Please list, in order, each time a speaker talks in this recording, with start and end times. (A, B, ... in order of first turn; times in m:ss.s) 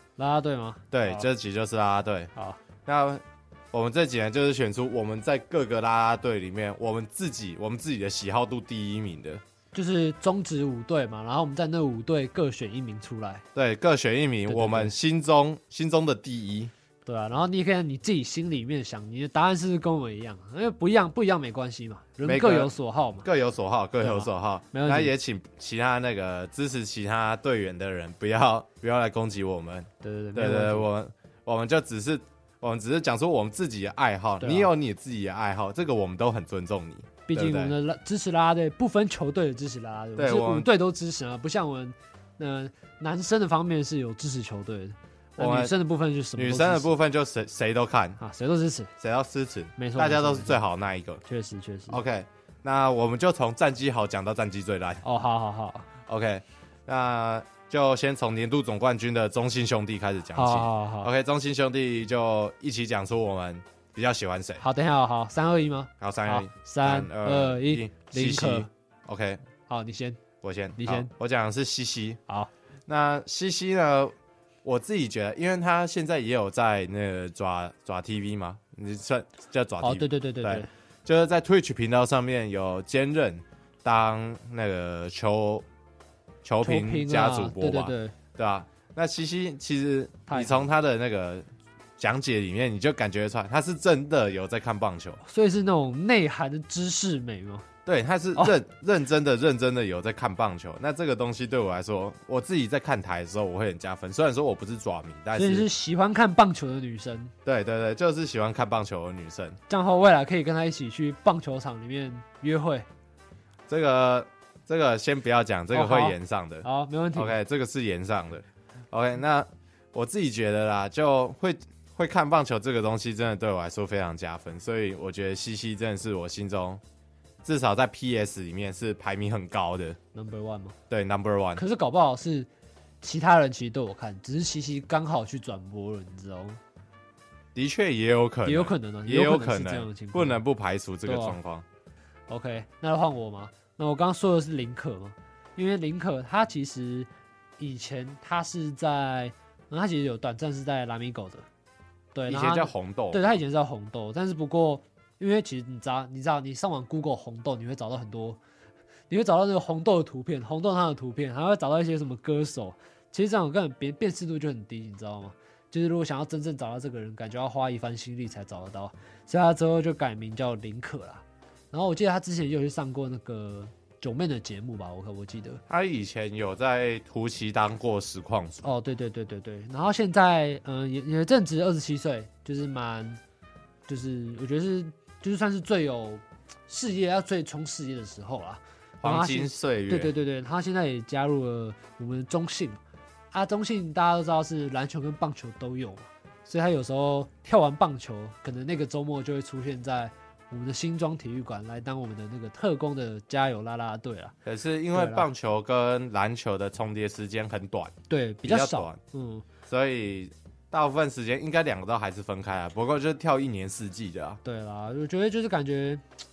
0:00.2-0:01.3 A
0:00.9-0:02.3 B
0:02.4-0:02.6 A
0:02.8-0:09.4 B
0:09.7-0:13.4 A
0:13.6-0:16.7 B
0:14.5-0:15.0 A
0:17.1-0:23.3 A
0:22.2-0:37.8 B
0:24.0-0:25.1 A
0:30.0-0:30.9 A
0:34.4-0:34.7 A
0:37.3-0:46.9 A
0:40.2-0:40.7 B
0:45.4-0:45.7 B
0:46.4-0:48.2 B
0:48.2-0:48.9 A
0:49.0-0:51.2 B
0:49.8-0:50.6 A
0:51.2-0:52.0 A
0:51.9-0:55.0 B
0:55.0-0:55.9 A
0:56.1-1:04.6 B
1:00.3-1:01.1 A
1:04.6-1:08.7 A
1:06.0-1:09.4 B
1:09.7-1:10.2 A
1:10.4-1:12.2 B
1:10.8-1:11.1 A
1:12.9-1:25.7 B
1:19.8-1:20.7 A
1:26.4-1:31.5 B
1:26.6-1:28.2 A
1:30.3-1:30.7 A
1:32.0-1:35.2 B
1:35.2-1:37.7 A
1:37.9-1:45.7 B
1:45.3-1:47.3 A
1:47.4-1:49.6 B
1:49.7-1:52.9 A
1:53.7-2:06.8 B
1:55.7-1:57.4 A
2:07.4-2:10.0 B
2:10.1-2:10.8 A
2:10.9-2:11.6 B
2:11.6-2:12.5 A
2:13.0-2:16.6 A
2:17.6-2:21.6 B
2:18.4-2:20.4 A
2:21.0-2:21.4 A
2:22.3-2:31.5 A
2:32.1-2:38.4 A
2:32.3-2:33.2 B
2:39.1-2:55.6 A
2:55.7-2:58.7 B
2:58.6-3:03.2 A
3:03.9-3:12.8 A
3:09.0-3:10.1 B
3:13.3-3:24.4 A
3:24.4-3:27.9 B
3:24.9-3:25.3 A
3:28.1-3:29.5 A
3:28.4-3:29.0 B
3:29.7-3:34.4 B
3:34.4-3:36.0 A